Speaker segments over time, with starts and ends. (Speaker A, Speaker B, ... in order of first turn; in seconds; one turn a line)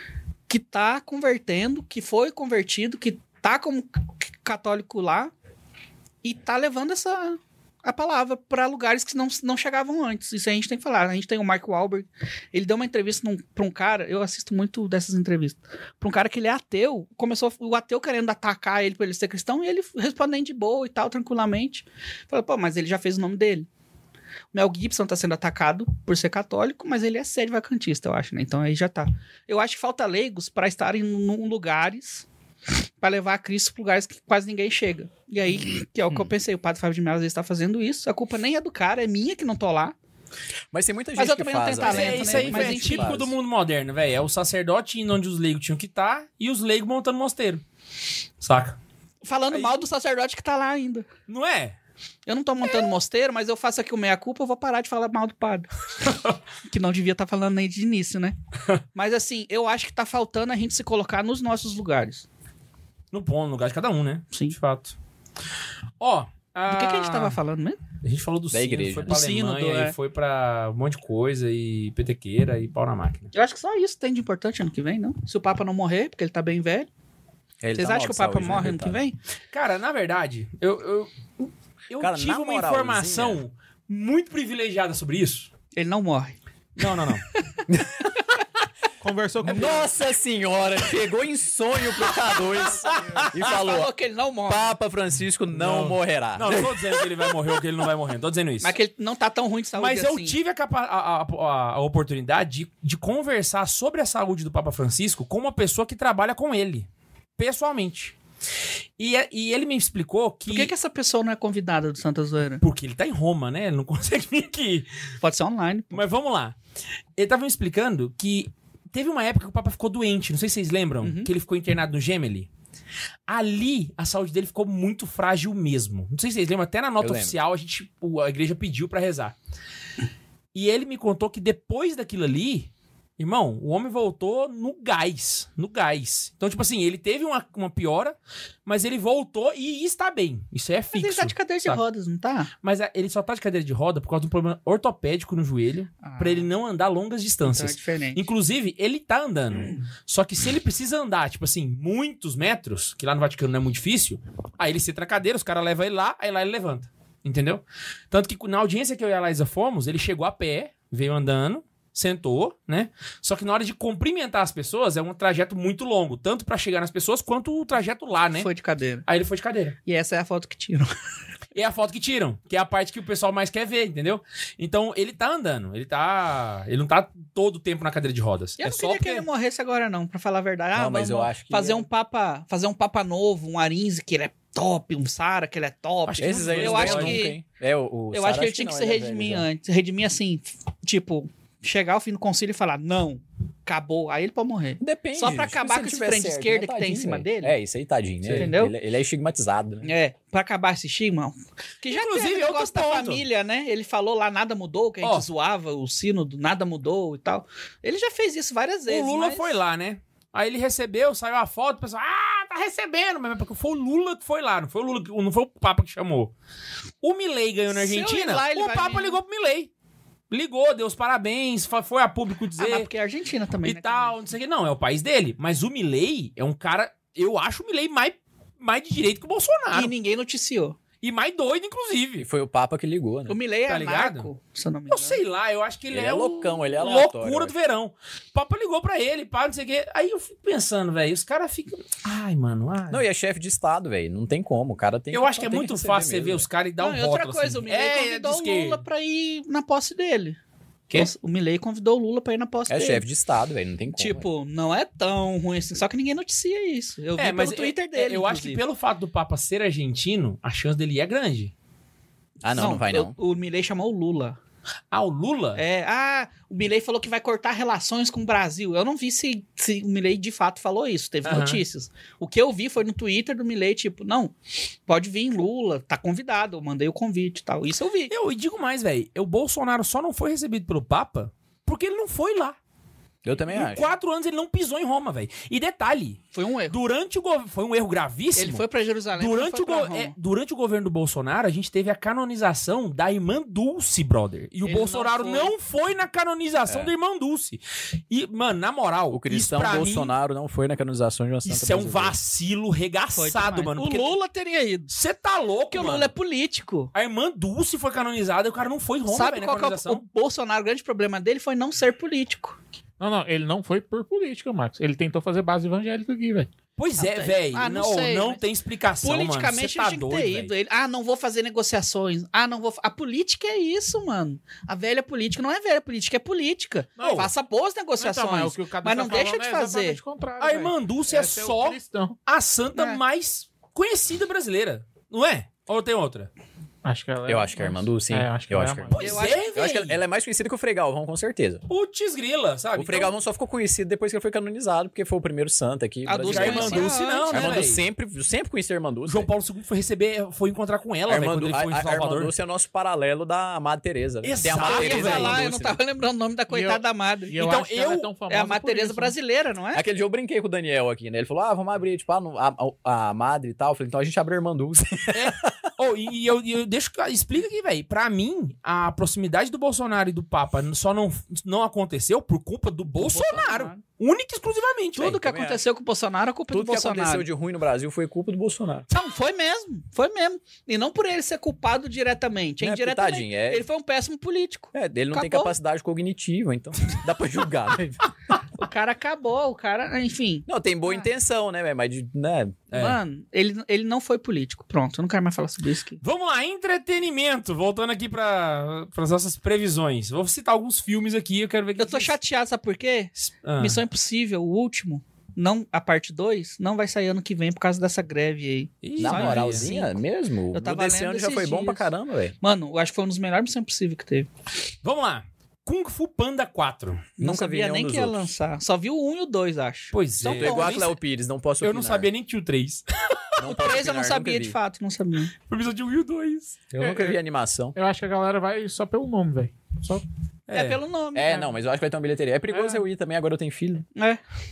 Speaker A: 0.5-5.3
Speaker A: 6.2-23.7
Speaker A: 24.5-32.2
Speaker A: 33.0-40.0
Speaker B: 40.7-43.3
Speaker A: 41.2-43.2
Speaker C: 41.8-47.6
Speaker C: 48.4-48.8
Speaker A: 49.2-51.1
Speaker C: 49.5-49.8
Speaker C: 51.3-51.8
Speaker A: 52.2-55.7
Speaker A: 56.6-58.4
Speaker A: 58.9-62.2
Speaker C: 63.1-64.9
Speaker C: 66.0-67.4
Speaker A: 66.7-67.8
Speaker C: 68.0-73.3
Speaker B: 68.5-69.1
Speaker A: 69.1-69.9
Speaker A: 73.3-76.9
Speaker B: 77.6-79.0
Speaker A: 77.7-79.2
Speaker C: 79.5-85.5
Speaker B: 82.0-83.4
Speaker A: 85.7-86.4
Speaker C: 86.8-87.2
Speaker B: 87.7-88.1
Speaker D: 89.0-89.9
Speaker B: 89.4-93.9
Speaker C: 92.9-93.3
Speaker A: 93.4-94.8
Speaker B: 94.5-97.1
Speaker C: 95.5-98.7
Speaker A: 98.6-100.4
Speaker C: 99.8-108.1
Speaker C: 109.0-110.7
Speaker A: 110.5-112.6
Speaker C: 112.6-114.9
Speaker A: 115.2-116.0
Speaker C: 115.9-116.5
Speaker C: 117.2-122.5
Speaker A: 121.0-121.3
Speaker C: 123.3-129.4
Speaker B: 127.0-127.4
Speaker C: 130.5-141.8
Speaker A: 140.9-142.5
Speaker C: 142.6-168.5
Speaker A: 146.0-146.5
Speaker A: 147.4-148.2
Speaker A: 168.4-169.0
Speaker C: 169.1-169.8
Speaker A: 169.8-170.9
Speaker C: 171.5-179.2
Speaker A: 178.6-187.4
Speaker B: 180.7-181.9
Speaker C: 186.1-187.2
Speaker B: 186.2-189.4
Speaker A: 188.1-197.5
Speaker B: 194.8-199.9
Speaker C: 198.2-198.5
Speaker A: 198.3-198.7
Speaker A: 199.8-209.6
Speaker C: 201.9-203.2
Speaker C: 208.9-216.3
Speaker C: 217.0-219.7
Speaker A: 217.7-219.2
Speaker C: 220.3-222.9
Speaker A: 222.6-224.1
Speaker C: 223.6-229.9
Speaker A: 229.7-230.8
Speaker C: 231.0-232.2
Speaker B: 232.2-233.4
Speaker A: 233.3-235.2
Speaker C: 233.7-234.3
Speaker C: 234.9-243.0
Speaker B: 235.9-237.5
Speaker B: 242.9-246.5
Speaker C: 245.1-248.8
Speaker A: 246.8-250.4
Speaker A: 250.9-253.0
Speaker B: 252.7-254.2
Speaker A: 253.9-258.6
Speaker C: 257.1-261.5
Speaker B: 262.4-263.1
Speaker A: 262.5-264.4
Speaker C: 264.9-265.6
Speaker A: 265.6-274.3
Speaker C: 271.2-271.6
Speaker A: 274.9-278.1
Speaker C: 278.1-282.6
Speaker B: 283.2-283.9
Speaker C: 283.5-288.6
Speaker A: 286.3-286.8
Speaker A: 288.4-290.1
Speaker C: 289.2-300.1
Speaker A: 294.6-295.5
Speaker B: 296.7-296.9
Speaker B: 299.1-302.1
Speaker C: 301.4-304.1
Speaker A: 303.1-304.9
Speaker C: 304.9-306.1
Speaker A: 305.7-306.9
Speaker C: 306.9-310.0
Speaker A: 309.1-312.6
Speaker D: 313.0-316.5
Speaker C: 316.8-320.5
Speaker A: 317.0-318.4
Speaker A: 319.0-330.0
Speaker D: 327.0-327.3
Speaker C: 327.0-327.3
Speaker D: 328.0-332.1
Speaker C: 330.4-336.3
Speaker A: 332.7-333.0
Speaker D: 336.8-339.1
Speaker B: 337.2-341.6
Speaker C: 338.9-340.0
Speaker A: 338.9-339.6
Speaker C: 341.7-343.1
Speaker B: 342.8-349.3
Speaker A: 346.0-347.6
Speaker C: 346.2-347.8
Speaker C: 349.1-352.3
Speaker B: 351.1-355.8
Speaker C: 354.2-355.4
Speaker A: 354.5-357.3
Speaker D: 356.5-359.1
Speaker C: 357.4-358.1
Speaker A: 358.3-359.8
Speaker B: 359.7-365.5
Speaker C: 365.1-375.2
Speaker A: 372.9-373.8
Speaker A: 374.9-377.3
Speaker B: 375.0-375.6
Speaker B: 376.5-378.9
Speaker A: 378.9-385.5
Speaker B: 382.6-383.6
Speaker B: 384.7-388.1
Speaker A: 388.6-391.1
Speaker B: 390.5-392.6
Speaker C: 392.7-393.0
Speaker A: 392.7-396.0
Speaker C: 396.0-402.1
Speaker A: 401.8-411.9
Speaker C: 403.2-403.8
Speaker C: 408.8-409.7
Speaker B: 409.0-412.4
Speaker A: 412.4-414.3
Speaker C: 414.8-417.1
Speaker A: 417.2-420.9
Speaker B: 417.2-418.3
Speaker C: 419.9-420.9
Speaker B: 420.2-422.1
Speaker C: 421.6-423.2
Speaker B: 423.4-424.6
Speaker A: 423.4-425.3
Speaker C: 425.5-426.8
Speaker B: 426.7-427.8
Speaker D: 426.8-427.2
Speaker D: 427.7-430.0
Speaker C: 430.5-430.8
Speaker A: 430.5-431.5
Speaker B: 431.1-433.9
Speaker D: 432.5-432.8